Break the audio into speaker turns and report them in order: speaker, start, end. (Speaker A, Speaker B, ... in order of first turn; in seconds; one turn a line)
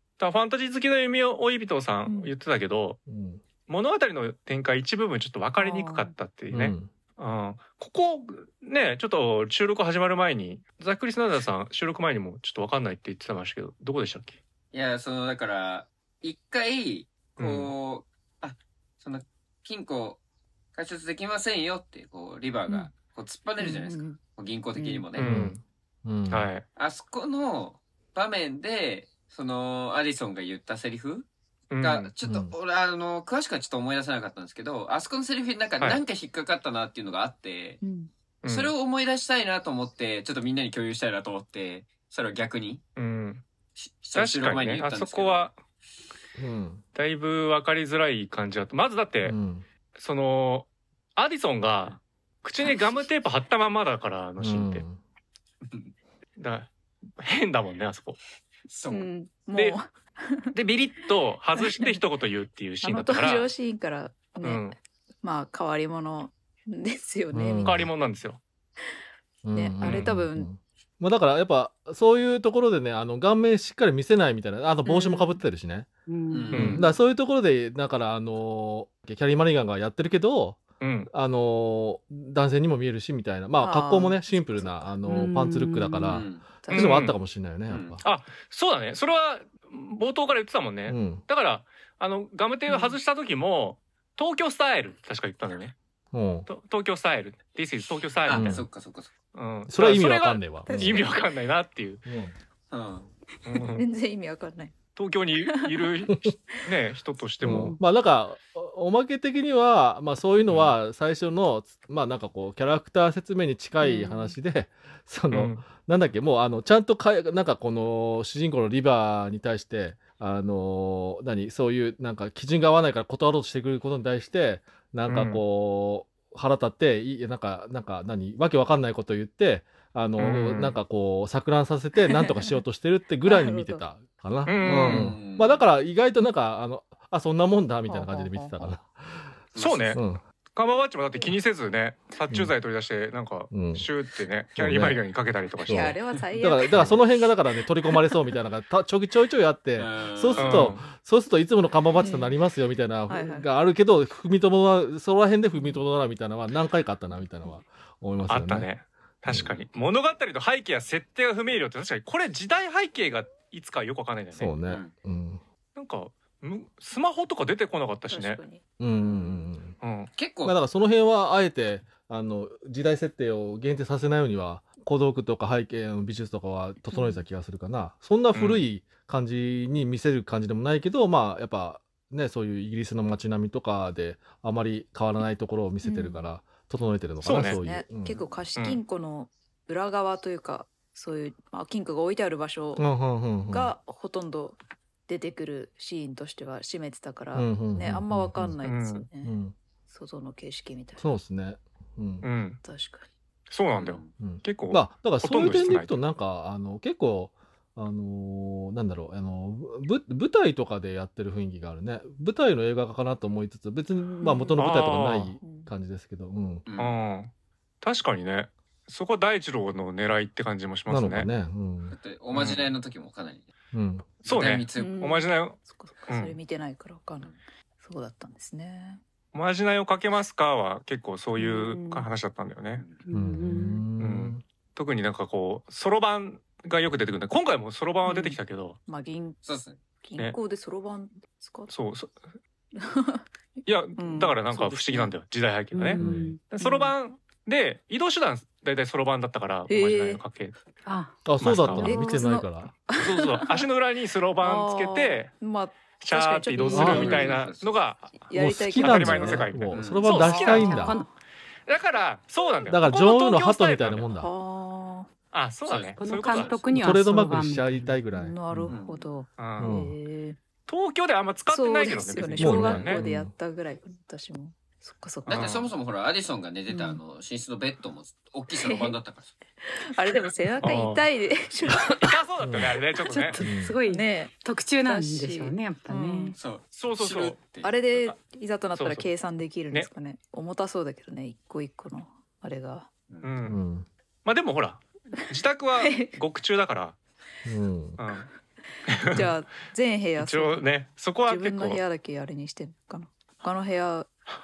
Speaker A: 0.2-3.0
Speaker B: 2.0-2.3
Speaker C: 3.1-3.4
Speaker A: 3.7-14.4
Speaker B: 5.6-6.1
Speaker C: 6.5-6.9
Speaker D: 14.7-20.2
Speaker A: 17.4-17.7
Speaker D: 20.7-25.4
Speaker B: 22.7-22.9
Speaker B: 23.6-24.2
Speaker A: 25.1-25.6
Speaker C: 25.2-26.5
Speaker A: 26.3-26.6
Speaker D: 26.7-31.3
Speaker A: 31.7-32.1
Speaker D: 31.8-37.8
Speaker C: 32.2-32.5
Speaker B: 37.8-38.1
Speaker A: 38.4-38.7
Speaker D: 38.4-42.8
Speaker A: 43.0-43.4
Speaker D: 43.8-45.5
Speaker A: 44.1-45.6
Speaker C: 46.4-46.8
Speaker A: 46.9-49.4
Speaker C: 49.2-49.6
Speaker A: 50.0-54.8
Speaker C: 54.4-55.0
Speaker D: 55.6-55.9
Speaker A: 56.4-58.2
Speaker D: 58.7-59.1
Speaker B: 58.9-60.5
Speaker A: 60.5-63.5
Speaker B: 61.6-62.0
Speaker B: 62.8-67.8
Speaker A: 64.4-64.7
Speaker C: 67.3-67.9
Speaker A: 67.6-68.4
Speaker C: 69.4-75.9
Speaker B: 69.5-70.5
Speaker A: 69.8-70.1
Speaker B: 74.8-75.4
Speaker E: 76.1-76.7
Speaker D: 76.3-76.9
Speaker A: 76.5-76.9
Speaker C: 76.5-88.0
Speaker A: 80.8-81.1
Speaker B: 83.6-85.3
Speaker E: 85.0-86.2
Speaker D: 86.1-86.5
Speaker B: 86.6-87.1
Speaker A: 86.7-87.2
Speaker D: 87.7-88.0
Speaker A: 88.0-95.8
Speaker C: 90.9-91.2
Speaker B: 92.7-93.0
Speaker C: 96.1-96.5
Speaker A: 96.5-98.6
Speaker D: 98.2-99.1
Speaker C: 98.3-98.7
Speaker A: 99.3-102.0
Speaker C: 99.7-101.0
Speaker B: 100.7-101.2
Speaker C: 102.0-102.3
Speaker D: 102.7-103.1
Speaker A: 103.5-103.9
Speaker B: 103.7-104.7
Speaker A: 105.0-107.8
Speaker B: 105.5-106.1
Speaker C: 107.4-139.3
Speaker A: 110.5-110.7
Speaker B: 113.8-114.3
Speaker A: 115.3-115.7
Speaker A: 125.1-125.4
Speaker A: 130.2-130.8
Speaker B: 132.1-132.6
Speaker B: 133.2-133.8
Speaker A: 134.4-135.2
Speaker D: 134.6-135.6
Speaker B: 137.9-138.7
Speaker D: 139.5-140.0
Speaker A: 139.6-140.0
Speaker C: 139.9-140.2
Speaker A: 140.5-146.0
Speaker C: 143.5-143.9
Speaker C: 144.6-145.0
Speaker B: 145.7-147.1
Speaker C: 145.7-158.7
Speaker D: 146.7-147.0
Speaker D: 149.8-150.7
Speaker A: 150.3-150.8
Speaker B: 152.0-152.3
Speaker B: 153.1-153.5
Speaker A: 158.3-164.5
Speaker C: 164.3-165.4
Speaker D: 164.6-164.9
Speaker A: 165.7-168.4
Speaker B: 168.1-168.6
Speaker C: 168.8-169.8
Speaker D: 169.0-169.5
Speaker A: 169.8-170.1
Speaker D: 170.1-170.6
Speaker C: 170.4-188.2
Speaker B: 176.9-177.2
Speaker A: 178.3-178.7
Speaker B: 185.8-186.2
Speaker A: 187.2-187.6
Speaker B: 187.3-192.8
Speaker D: 188.2-188.5
Speaker C: 192.8-193.7
Speaker B: 193.5-194.6
Speaker B: 195.1-199.3
Speaker C: 197.3-198.6
Speaker A: 198.6-199.1
Speaker C: 199.2-199.5
Speaker B: 199.9-201.1
Speaker C: 201.0-202.2
Speaker A: 202.2-202.6
Speaker B: 202.6-203.1
Speaker A: 203.5-205.9
Speaker D: 203.8-204.1
Speaker C: 204.2-216.6
Speaker B: 214.2-214.6
Speaker A: 214.6-215.3
Speaker B: 215.4-215.7
Speaker D: 216.7-216.9
Speaker A: 216.8-221.3
Speaker C: 220.9-221.9
Speaker D: 221.9-223.5
Speaker A: 222.3-222.7
Speaker C: 223.7-224.1
Speaker D: 224.2-225.0
Speaker A: 224.2-226.3
Speaker B: 224.7-229.0
Speaker A: 229.3-232.8
Speaker B: 231.3-232.1
Speaker D: 232.7-233.0
Speaker E: 233.0-233.8
Speaker C: 233.1-234.4
Speaker A: 234.0-238.8
Speaker B: 238.1-239.4
Speaker D: 239.4-239.8
Speaker B: 240.0-241.7
Speaker A: 241.7-242.2
Speaker B: 242.7-245.1
Speaker A: 243.7-250.6
Speaker E: 245.7-246.4
Speaker C: 246.0-246.3
Speaker B: 246.6-246.9
Speaker B: 249.7-250.2
Speaker E: 250.8-251.2
Speaker C: 251.2-252.7
Speaker A: 251.4-252.0
Speaker B: 251.8-253.6
Speaker E: 251.9-252.2
Speaker A: 252.9-255.3
Speaker B: 254.4-257.3
Speaker A: 256.0-260.9
Speaker C: 256.7-257.1
Speaker D: 256.8-257.8
Speaker B: 258.3-261.1
Speaker C: 258.3-261.0
Speaker D: 259.7-260.3
Speaker E: 260.5-261.1
Speaker A: 261.7-264.1
Speaker C: 262.7-264.3
Speaker B: 264.1-265.1
Speaker A: 265.3-266.5
Speaker D: 265.6-266.7
Speaker E: 266.0-267.9
Speaker C: 266.7-268.7
Speaker B: 268.1-270.4
Speaker D: 268.7-269.1
Speaker A: 269.4-269.8
Speaker C: 269.6-269.9
Speaker A: 270.7-273.0
Speaker B: 271.5-275.6
Speaker C: 272.4-273.3
Speaker A: 275.3-275.7
Speaker D: 275.3-279.3
Speaker B: 276.7-277.0
Speaker B: 278.6-279.0
Speaker B: 279.6-282.1
Speaker A: 280.6-281.0
Speaker A: 282.0-283.4
Speaker C: 282.4-282.7
Speaker E: 283.0-286.4
Speaker C: 283.4-283.8
Speaker B: 283.4-284.3
Speaker B: 284.8-286.4
Speaker D: 286.4-287.8
Speaker A: 286.7-287.4
Speaker B: 287.6-292.9
Speaker A: 288.7-289.1
Speaker D: 293.1-293.3
Speaker A: 293.2-293.6
Speaker C: 293.5-293.9
Speaker A: 294.2-297.0
Speaker B: 295.8-296.2
Speaker C: 297.4-298.0
Speaker A: 298.0-298.3
Speaker A: 298.9-299.3
Speaker B: 299.0-300.7
Speaker A: 300.2-301.8
Speaker B: 301.2-304.1